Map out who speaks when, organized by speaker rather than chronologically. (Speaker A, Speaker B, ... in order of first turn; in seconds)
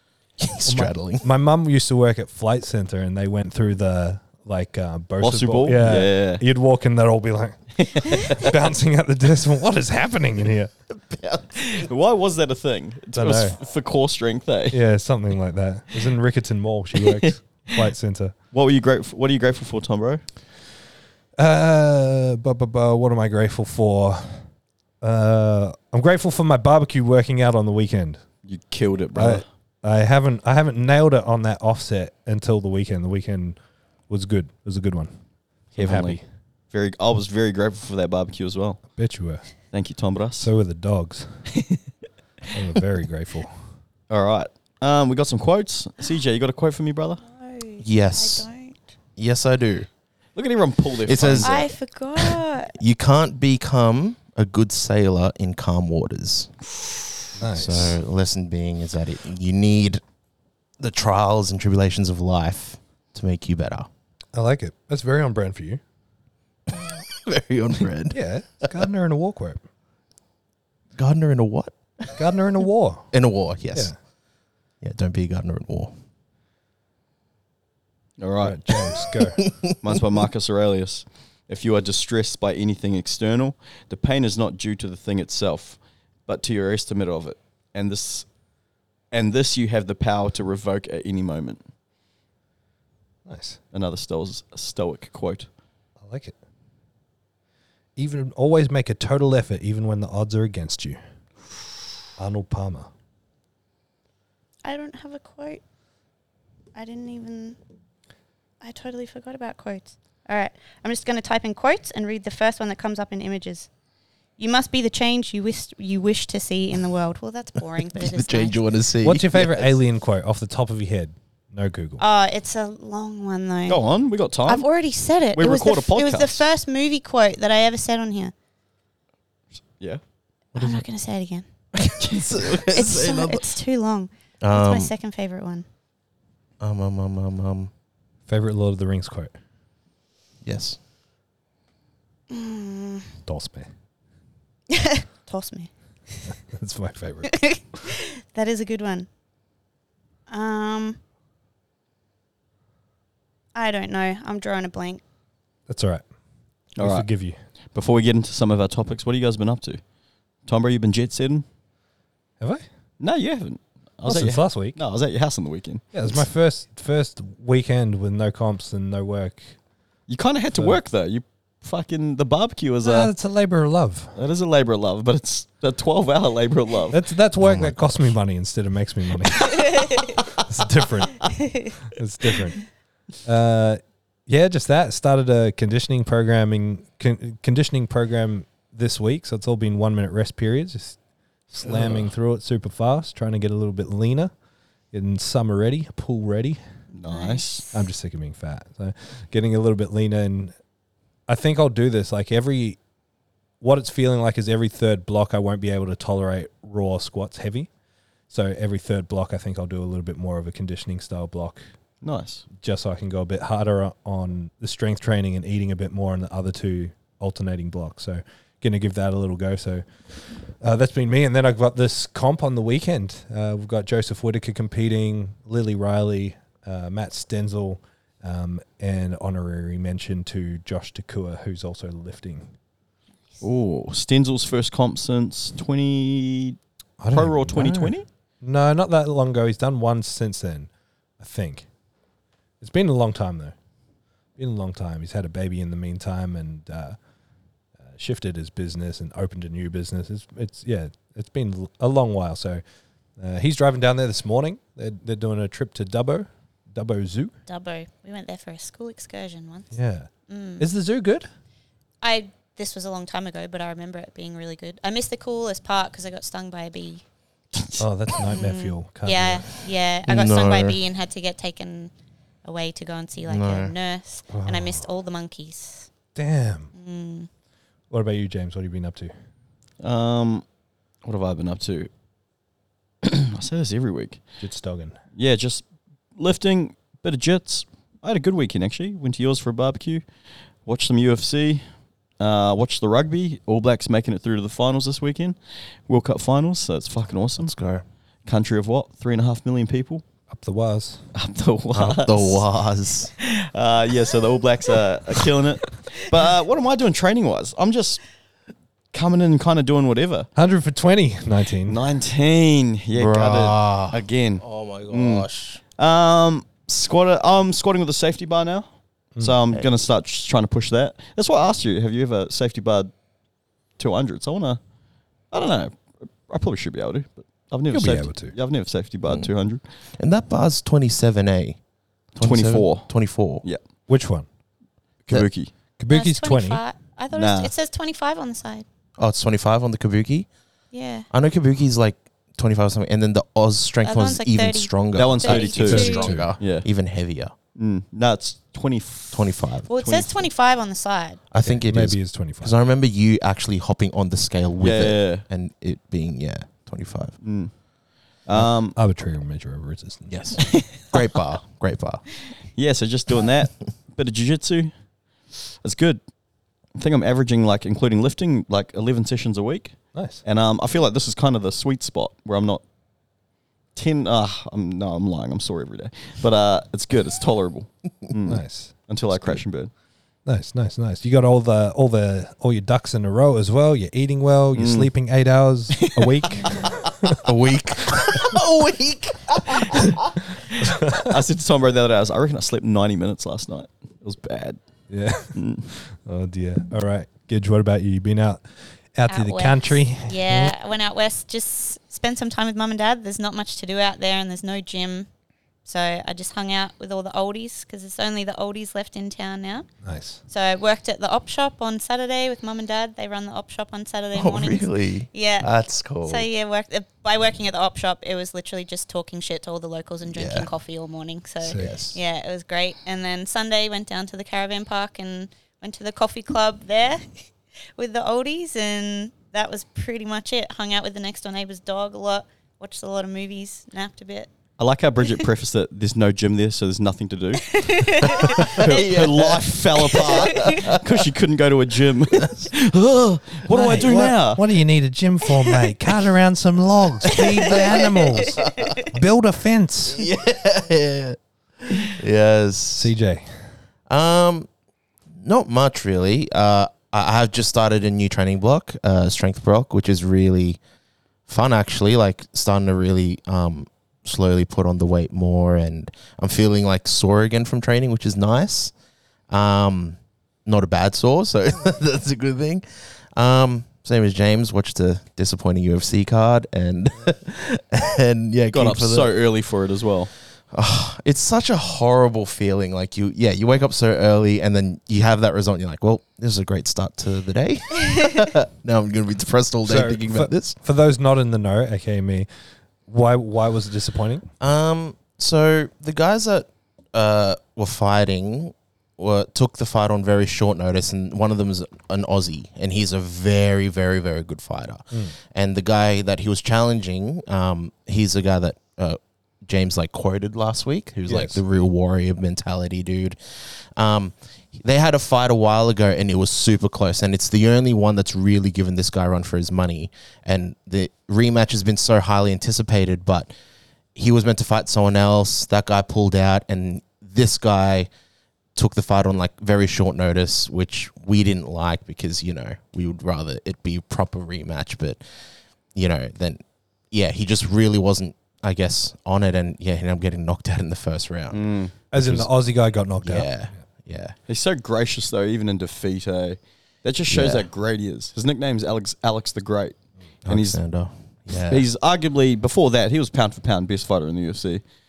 Speaker A: 0.4-1.3, 10.9-11.9, 47.8-48.5, 49.2-49.9, 51.0-51.7, 52.8-56.5, 57.4-60.0, 60.8-63.9, 66.7-68.2, 71.0-72.1, 73.1-73.9, 74.8-75.9, 79.2-80.0, 117.9-119.8, 130.6-130.8, 131.8-133.5, 134.4-134.9, 136.6-137.7, 140.4-140.8, 177.4-177.8, 270.1-270.8, 273.3-273.7, 297.4-297.9, 301.7-303.1, 312.9-315.6, 330.0-331.6, 332.2-333.4, 339.0-340.3, 341.1-347.3, 349.1-349.7, 351.3-357.2, 360.1-362.0, 387.2-390.2, 414.1-416.3, 420.1-420.5, 421.5-422.0, 438.6-440.8, 447.5-448.8, 449.9-452.9, 453.9-454.5, 455.2-460.6, 461.3-468.7, 469.3-472.6, 473.1-479.1, 480.5-490.6, 494.4-513.2, 513.8-523.3, 524.0-527.9, 528.5-535.0, 535.8-542.3, 543.0-544.2, 547.1-547.5, 550.3-551.7
Speaker B: 0.7-10.7, 13.1-13.6, 14.7-18.3, 21.4-24.4, 25.0-28.2, 29.1-33.6, 34.1-35.1, 35.7-36.2, 39.0-39.5, 40.4-41.3, 42.5-43.5, 57.4-58.0, 64.3-65.8, 68.1-69.6, 72.2-73.1, 78.4-79.4, 93.3-93.6, 96.0-96.3, 98.0-101.0, 102.2-102.9, 119.0-122.0, 138.3-139.4, 143.3-143.7, 146.5-147.4, 155.7-156.0, 156.8-157.4, 164.1-164.8, 165.9-169.5, 172.8-174.1, 176.9-182.7, 183.2-191.0, 191.5-194.3, 194.9-196.6, 197.7-200.6, 201.3-202.8, 203.6-207.7, 208.3-211.6, 212.6-219.8, 220.6-232.5, 237.0-240.7, 241.2-241.7, 242.6-243.6, 244.4-247.0, 247.9-252.6, 253.2-257.4, 259.7-261.3, 267.8-269.5, 274.3-274.8, 276.1-276.7, 277.9-279.1, 284.4-285.0, 300.3-301.0, 310.4-311.8, 327.7-328.3, 333.9-334.3, 335.8-336.6, 345.7-346.3, 351.4-352.6, 358.3-360.2, 369.9-370.2, 378.3-378.7, 380.3-387.3, 390.6-391.2, 394.9-398.4, 398.9-400.5, 409.8-410.2, 421.4-421.7, 443.5-450.1, 452.7-453.3, 489.7-492.3, 492.9-494.3, 511.1-511.4, 541.9-543.5
Speaker C: 5.2-6.4, 7.8-8.5, 11.6-14.8, 17.0-17.3, 18.5-20.2, 28.5-29.4, 35.8-36.2, 36.7-38.8, 39.7-40.5, 44.1-47.2, 50.4-51.6, 78.2-78.9, 79.8-88.3, 89.1-91.6, 93.7-95.5, 123.7-124.7, 125.3-126.4, 156.8-157.1, 157.8-159.8, 160.5-161.4, 163.0-165.9, 170.1-173.1, 174.2-177.0, 191.7-192.1, 196.9-197.7, 212.0-212.5, 233.4-236.6, 237.1-238.1, 267.5-267.8, 279.8-280.4, 281.0-281.9, 283.0-284.2, 285.2-285.6, 286.2-290.1, 290.7-291.6, 292.2-295.4, 295.9-297.5, 298.3-300.0, 301.1-302.4, 303.2-308.0, 308.9-310.3, 311.7-318.7, 319.2-322.9, 323.8-324.6, 325.3-329.6, 332.2-332.9, 335.1-335.5, 337.1-337.5, 344.9-346.7, 347.6-350.3, 354.6-355.2, 357.2-357.5, 358.2-358.8, 360.4-361.0, 362.6-364.7, 365.6-366.0, 366.8-372.6, 373.8-379.7, 384.6-384.9, 385.8-386.6, 390.5-394.6, 395.4-395.7, 434.6-444.4, 478.5-480.1, 541.3-541.7, 544.3-549.8, 550.3-550.6, 551.4-554.6
Speaker D: 47.2-48.8, 51.4-52.8, 104.7-105.6, 106.8-107.6, 108.6-113.7, 114.4-118.6, 122.0-123.8, 124.5-128.3, 130.6-131.5, 132.7-135.7, 142.3-143.1, 144.7-146.2, 147.3-149.1, 150.3-151.0, 153.6-155.0, 181.4-181.7, 197.1-197.7, 257.5-259.7, 260.3-260.7, 262.0-267.0, 268.3-271.9, 272.4-275.9, 276.8-277.3, 335.9-338.6, 340.7-341.1, 343.8-346.1, 349.7-351.2, 399.1-405.1, 405.6-409.7, 410.3-415.5, 416.1-434.3, 437.5-438.8, 447.2-448.9